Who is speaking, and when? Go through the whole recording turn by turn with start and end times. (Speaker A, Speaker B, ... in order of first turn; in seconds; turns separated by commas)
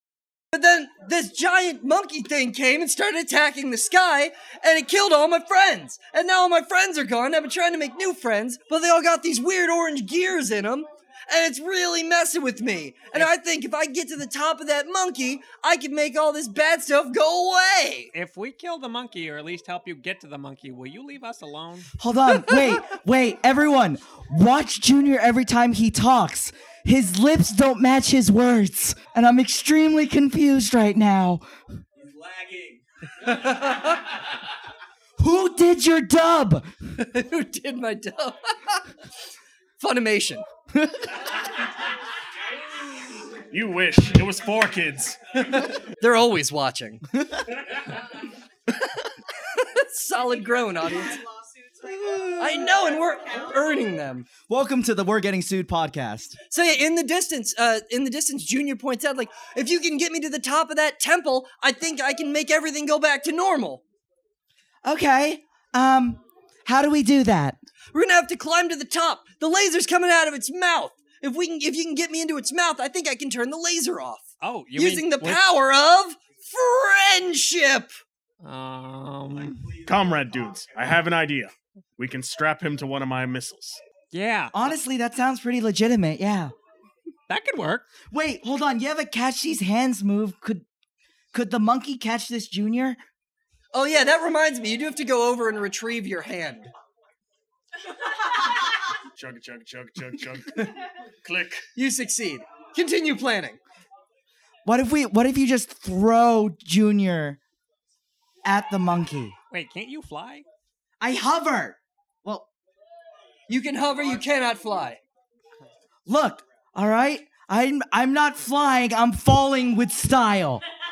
Speaker A: 0.5-18.1, Speaker B: 18.1-21.9, Speaker C: 22.0-31.4, Speaker A: 33.2-34.0, Speaker C: 35.2-36.7, Speaker A: 37.0-38.8, Speaker A: 39.8-40.4, Speaker C: 40.7-41.0, Speaker D: 43.5-45.2, Speaker A: 45.4-47.0, Speaker A: 49.5-51.2, Speaker E: 50.1-53.7, Speaker C: 51.8-52.8, Speaker A: 52.4-54.3, Speaker C: 54.5-56.4, Speaker A: 56.5-63.8, Speaker C: 64.8-67.6, Speaker A: 67.9-77.9, Speaker B: 74.4-75.4, Speaker B: 78.4-79.8, Speaker D: 79.8-83.8, Speaker B: 84.1-84.5, Speaker C: 84.5-86.5, Speaker B: 87.3-87.9, Speaker C: 88.1-90.6, Speaker C: 91.3-93.0, Speaker A: 93.7-96.7, Speaker D: 99.2-100.7, Speaker D: 101.2-101.6, Speaker A: 101.8-103.6, Speaker C: 104.7-107.4, Speaker C: 108.4-109.3, Speaker B: 109.5-110.4, Speaker C: 111.0-112.5, Speaker A: 113.5-115.0, Speaker C: 116.0-120.6